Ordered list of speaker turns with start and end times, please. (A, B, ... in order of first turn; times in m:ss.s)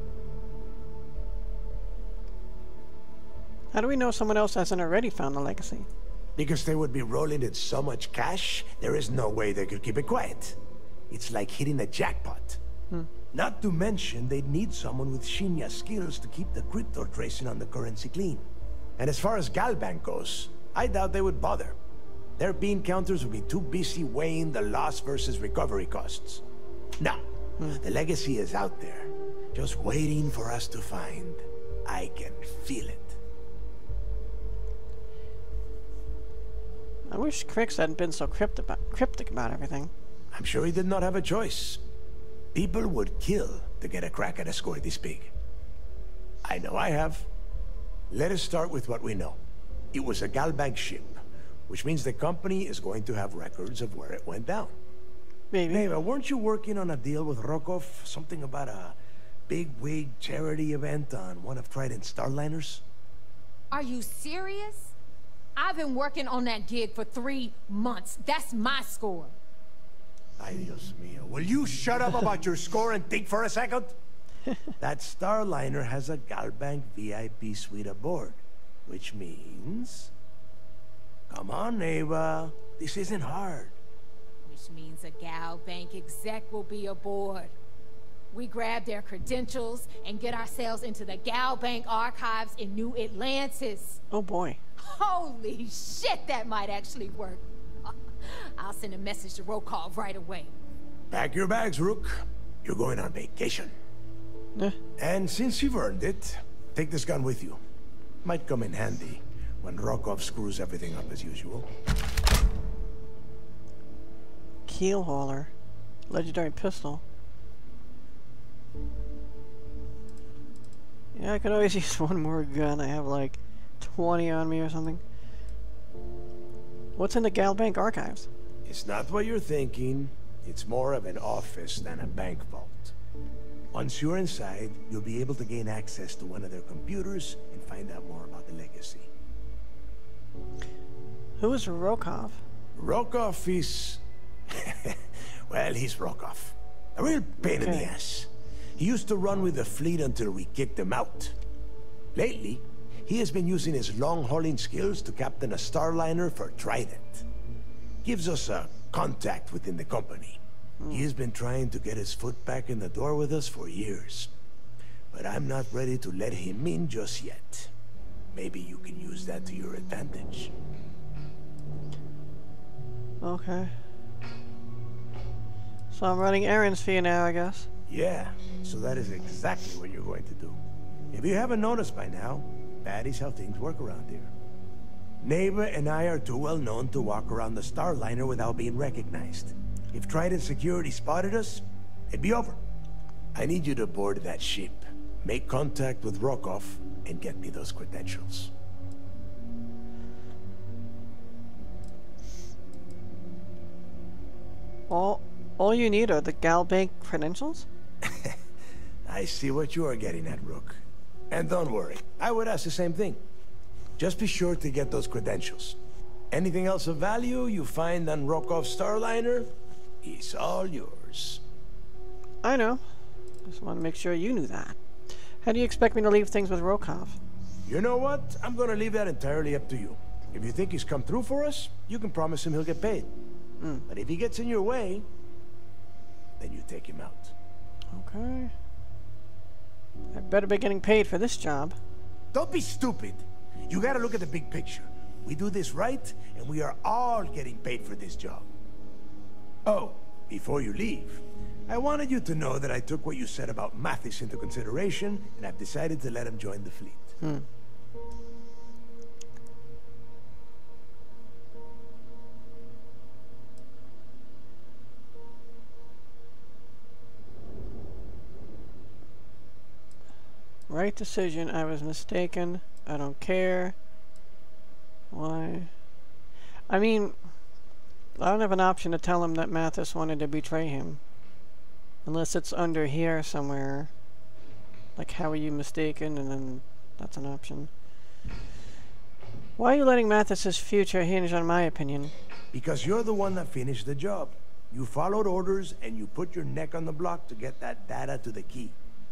0:03.7-0:05.9 A
0:06.4-0:10.6 B
0:11.1-0:12.6 B
0:13.3-0:18.4 B
0:19.0-0:21.8 B
0:22.4-0:26.4 B
0:27.0-0:33.2 B
0:37.1-0:39.9 A
0:40.3-0:41.8 B
0:42.5-0:45.3 B
0:46.4-0:47.3 B
0:48.1-0:49.4 B
0:49.9-0:54.7 B
0:55.5-0:55.9 A
0:55.7-0:59.0 B
0:59.5-1:02.8 B
1:03.7-1:04.9 C
1:05.6-1:09.4 C
1:10.4-1:14.0 B
1:14.8-1:20.1 B
1:21.3-1:23.8 B
1:24.4-1:27.5 C
1:28.3-1:34.0 C
1:34.1-1:34.6 A
1:34.8-1:40.5 C
1:41.1-1:43.7 B
1:45.0-1:47.6 B
1:48.2-1:51.7 B
1:54.7-1:55.5 A
1:56.1-1:57.0 A
2:01.1-2:05.0 A
2:07.0-2:08.3 A
2:08.6-2:12.9 B
2:13.7-2:19.1 B
2:21.4-2:22.4 A
2:22.8-2:31.3 B
2:27.4-2:27.9 A
2:32.1-2:37.3 B
2:38.0-2:44.3 B
2:40.8-2:41.1 A
2:45.1-2:47.7 B
2:48.3-2:50.5 B
2:53.2-2:53.7 A
2:55.9-2:57.7 A
2:57.9-3:00.6 B
3:01.1-3:04.3 B
3:05.2-3:12.6 B
3:13.3-3:18.5 B
3:24.9-3:27.7 A
3:28.0-3:28.4 B
3:29.1-3:33.2 B
3:34.0-3:35.8 B
3:36.3-3:39.5 B
3:40.0-3:41.4 B
3:42.4-3:42.8 A
3:43.5-3:44.8 A
3:45.4-3:47.2 A
3:47.6-3:53.1 B
3:53.9-3:55.1 B
3:56.4-3:57.3 B
3:57.9-3:58.5 A
4:00.1-4:01.8 A
4:02.3-4:08.5 B
4:09.6-4:17.2 B
4:17.2-4:17.5 A
4:30.7-4:33.7 A
4:35.1-4:35.7 A
4:36.7-4:37.2 A
4:38.2-4:41.0 A
4:42.0-4:43.9 A
4:45.0-4:47.7 A
4:49.6-4:52.1 A
4:52.5-4:58.8 B